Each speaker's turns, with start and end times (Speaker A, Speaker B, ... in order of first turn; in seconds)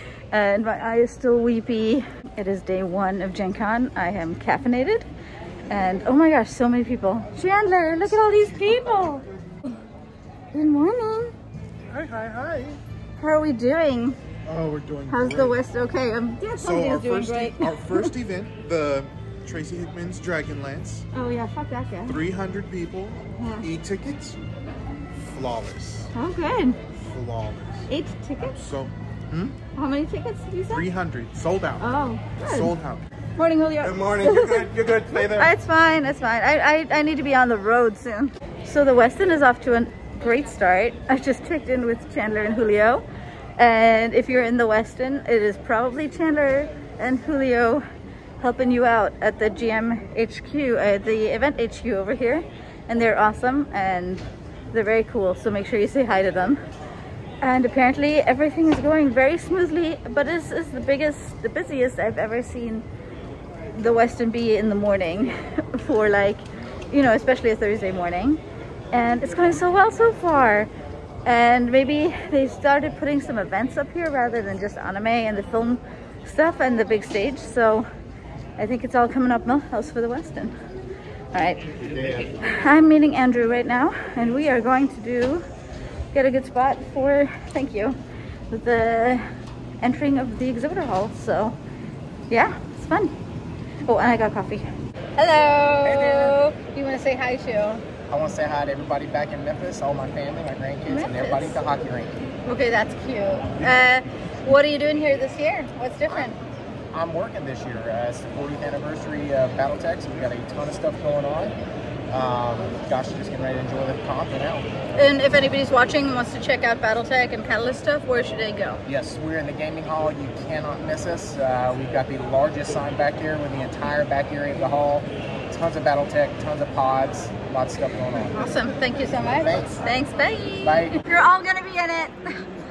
Speaker A: 0.3-5.1, 5.7-9.2, 10.5-11.3, 13.2-14.2, 15.1-18.1, 21.1-22.2, 23.4-23.7, 26.1-26.8, 27.9-28.6, 29.8-30.9, 31.8-32.8, 33.4-43.0, 43.6-47.9, 48.4-56.6, 57.4-62.9, 63.7-68.4, 68.9-70.7, 71.2-77.9, 78.6-80.5, 81.3-81.6, 82.4-85.5, 86.1-88.0, 88.5-89.2, 89.8-91.6, 92.3-93.1, 93.9-97.8, 100.9-101.6, 102.5-106.4, 115.0-118.8, 128.4-132.2
Speaker B: 11.9-12.8, 14.5-15.6, 16.5-21.1, 22.1-24.4, 25.3-26.1, 27.1-27.9, 28.4-29.6, 30.7-33.0, 33.8-35.5
Speaker C: 81.8-82.3, 98.1-102.2, 106.9-111.6, 112.1-114.7, 118.8-130.0, 130.6-131.0